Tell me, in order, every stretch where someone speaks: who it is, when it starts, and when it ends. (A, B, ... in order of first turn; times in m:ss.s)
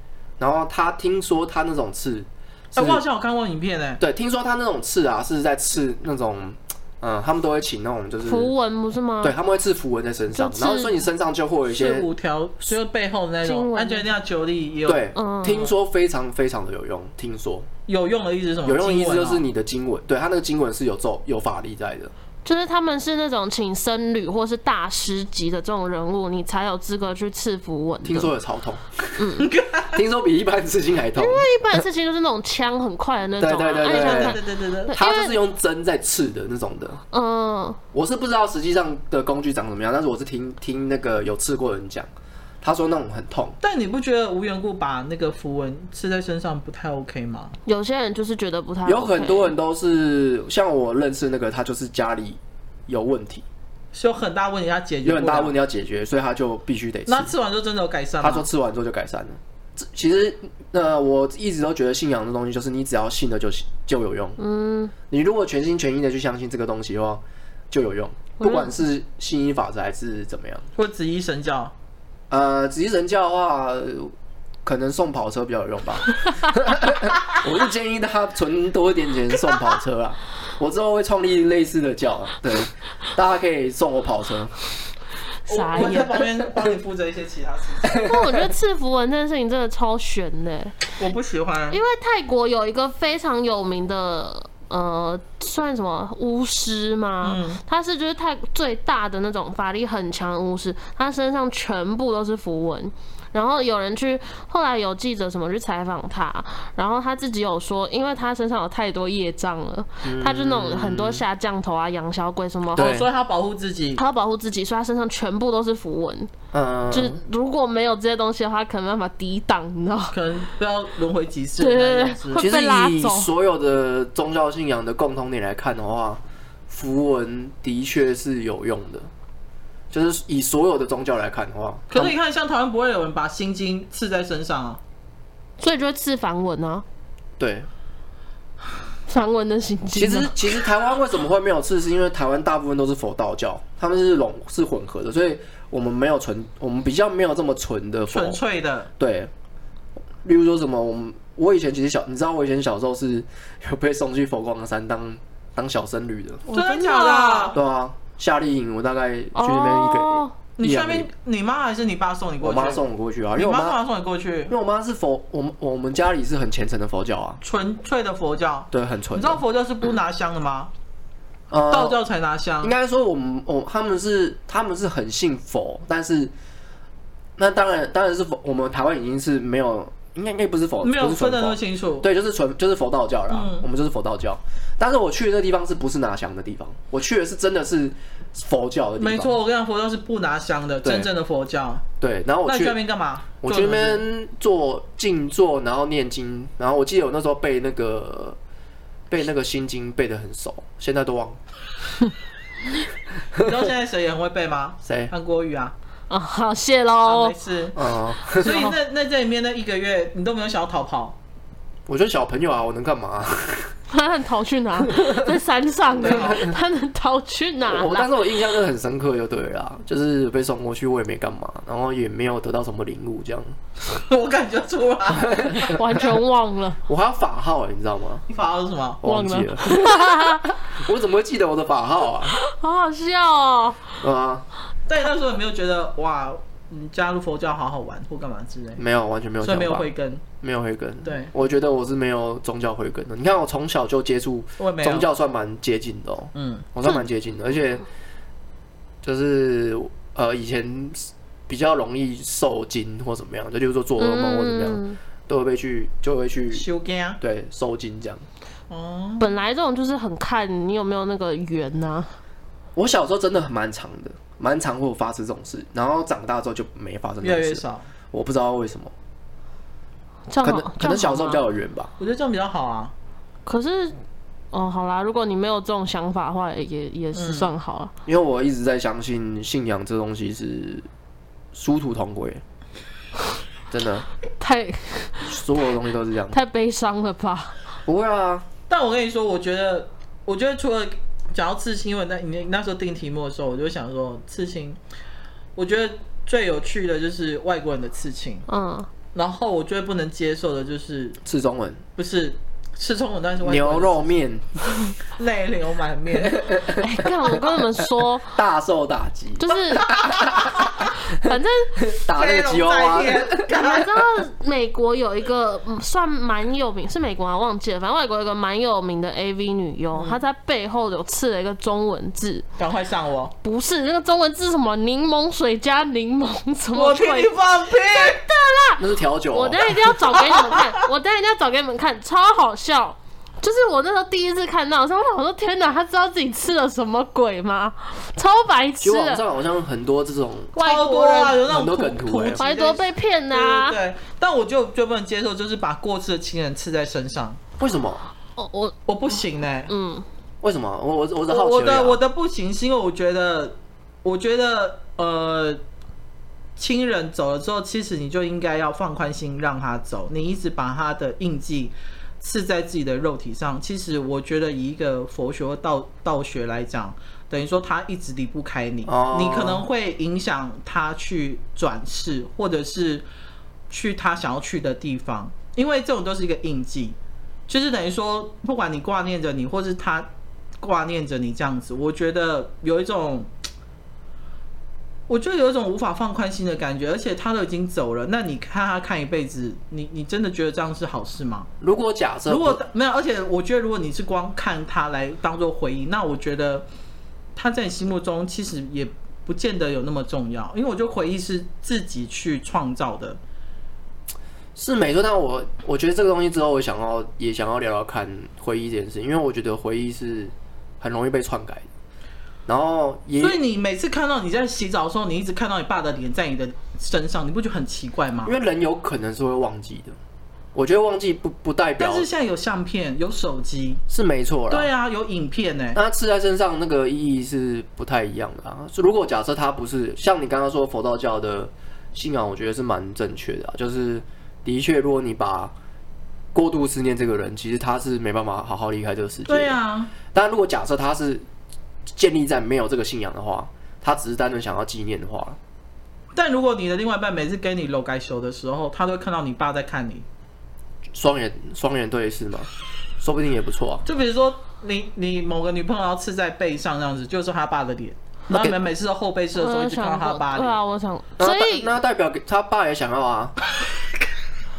0:00.4-0:03.0 A
0:02.7-0:04.0 B
0:04.0-0:08.5 A
0:08.2-0:09.4 C
0:09.2-0:12.1 A
0:10.3-0:11.0 C
0:11.7-0:15.0 B
0:13.4-0:14.1 C
0:14.9-0:17.7 A
0:15.1-0:15.7 C
0:17.9-0:19.4 B
0:18.6-0:22.1 A
0:22.4-0:28.3 C
0:28.0-0:29.4 A
0:29.2-0:29.5 C
0:29.4-0:30.0 B
0:29.9-0:31.8 A
0:31.2-0:35.3 C
0:33.4-0:37.0 A
0:33.8-0:34.9 B
0:37.1-0:37.8 C
0:37.9-0:42.1 A
0:42.6-0:43.6 A
0:43.6-0:47.6 B
0:47.6-0:49.5 C
0:48.8-0:53.4 A
0:53.9-0:55.6 B
0:55.0-0:57.3 A
0:57.1-0:58.5 B
0:58.2-1:04.4 A
1:04.4-1:04.9 C
1:05.1-1:10.7 A
1:08.4-1:08.8 C
1:10.8-1:11.7 B
1:12.3-1:14.1 A
1:14.6-1:24.5 A
1:25.5-1:26.2 C
1:25.5-1:28.0 B
1:27.9-1:30.8 C
1:27.9-1:28.4 A
1:31.0-1:31.8 B
1:31.7-1:52.9 C
1:37.2-1:37.6 B
1:50.0-1:51.2 A
1:52.8-1:53.1 A
1:52.8-1:54.0 B
1:54.0-1:56.3 C
1:56.5-1:57.2 A
1:56.9-2:00.2 C
2:00.1-2:02.5 B
2:01.6-2:03.3 C
2:02.4-2:09.1 A
2:09.9-2:12.1 A
2:11.9-2:14.8 B
2:15.6-2:16.8 C
2:17.4-2:17.7 A
2:19.1-2:20.6 C
2:20.0-2:28.4 A
2:28.1-2:28.9 B
2:29.0-2:29.3 A
2:30.2-2:36.4 A
2:36.4-2:37.6 C
2:36.5-2:37.6 B
2:37.5-2:41.1 A
2:39.4-2:40.3 C
2:40.6-2:42.8 B
2:42.4-2:43.8 A
2:43.4-2:44.5 B
2:44.5-2:47.4 A
2:47.4-2:50.7 B
2:48.7-2:49.4 A
2:51.5-2:52.0 A
2:51.7-2:52.7 B
2:52.6-2:56.3 A
2:57.4-3:09.4 A
3:00.8-3:02.1 B
3:03.3-3:03.7 B
3:09.0-3:11.8 B
3:10.8-3:11.1 A
3:12.0-3:12.8 A
3:12.4-3:14.0 B
3:13.4-3:18.4 A
3:19.1-3:21.4 A
3:23.4-3:25.7 B
3:24.8-3:25.1 A
3:26.1-3:27.4 C
3:27.0-3:27.8 B
3:27.7-3:28.6 A
3:28.3-3:31.2 B
3:28.4-3:28.7 C
3:31.9-3:33.7 A
3:33.9-3:38.1 C
3:34.9-3:35.2 A
3:36.0-3:36.4 B
3:36.0-3:36.6 A
3:37.6-3:43.6 A
3:43.9-3:45.7 B
3:45.2-3:45.8 A
3:45.5-3:46.8 C
3:46.9-3:48.2 A
3:48.3-3:49.0 B
3:49.0-3:52.4 A
3:49.0-3:50.6 C
3:52.4-3:54.0 C
3:54.0-3:54.4 A
3:54.9-3:58.8 B
3:58.8-4:07.8 A
3:59.4-4:00.2 B
4:01.0-4:01.3 B
4:04.6-4:05.1 B
4:06.4-4:06.7 B
4:09.0-4:16.6 A
4:14.0-4:15.0 C
4:16.5-4:17.2 B
4:17.2-4:18.2 A
4:18.7-4:19.3 B
4:19.2-4:22.1 C
4:22.8-4:28.9 A
4:27.2-4:27.9 B
4:30.3-4:31.4 C
4:30.4-4:31.9 A
4:32.0-4:32.9 B
4:33.4-4:34.0 C
4:34.5-4:37.9 C
4:37.1-4:37.5 B
4:38.1-4:40.9 A
4:41.5-4:42.4 A
4:43.7-4:44.1 A
4:44.4-4:45.4 C
4:45.2-4:46.4 A
4:46.3-4:47.6 C
4:47.9-4:48.4 A
4:48.7-4:54.8 B
4:55.6-4:58.4 B
4:58.5-4:58.9 C
4:59.1-5:01.2 B
5:01.2-5:01.8 A
5:02.0-5:04.2 B
5:03.4-5:04.6 A
5:05.2-5:06.4 B
5:06.2-5:07.6 A
5:06.8-5:08.3 C
5:08.3-5:13.6 A
5:09.4-5:10.3 C
5:10.9-5:11.8 C
5:12.1-5:13.9 B
5:13.5-5:22.4 C
5:19.9-5:20.2 B
5:22.6-5:23.3 B
5:23.4-5:27.3 C
5:26.7-5:28.2 B
5:27.9-5:39.2 C
5:28.8-5:29.9 A
5:30.2-5:30.7 B
5:38.8-5:42.4 A
5:40.6-5:47.4 B
5:40.6-5:41.2 C
5:42.4-5:43.8 C
5:47.6-5:48.0 A
5:48.4-5:48.7 C
5:48.9-5:49.7 B
5:49.7-5:50.0 C
5:50.4-5:52.0 A
5:51.3-5:55.6 B
5:56.6-6:13.0 B
6:08.9-6:09.6 A
6:13.7-6:17.0 B
6:17.5-6:20.1 B
6:20.6-6:23.3 B
6:25.1-6:31.5 B
6:31.6-6:32.6 A
6:32.3-6:36.6 B
6:37.4-6:43.2 B
6:44.6-6:51.6 A
6:52.4-6:53.4 A
6:53.2-6:58.4 B
6:58.2-7:00.0 A
7:00.5-7:02.1 A
7:01.8-7:03.8 B
7:03.9-7:04.7 A
7:04.5-7:05.8 B
7:05.7-7:15.5 A
7:16.3-7:19.6 A
7:19.3-7:19.9 B
7:20.1-7:21.2 A
7:21.9-7:25.4 A
7:26.1-7:30.0 B
7:30.9-7:33.8 A
7:33.8-7:40.6 B
7:38.3-7:38.6 A
7:39.4-7:41.7 C
7:41.2-7:43.4 A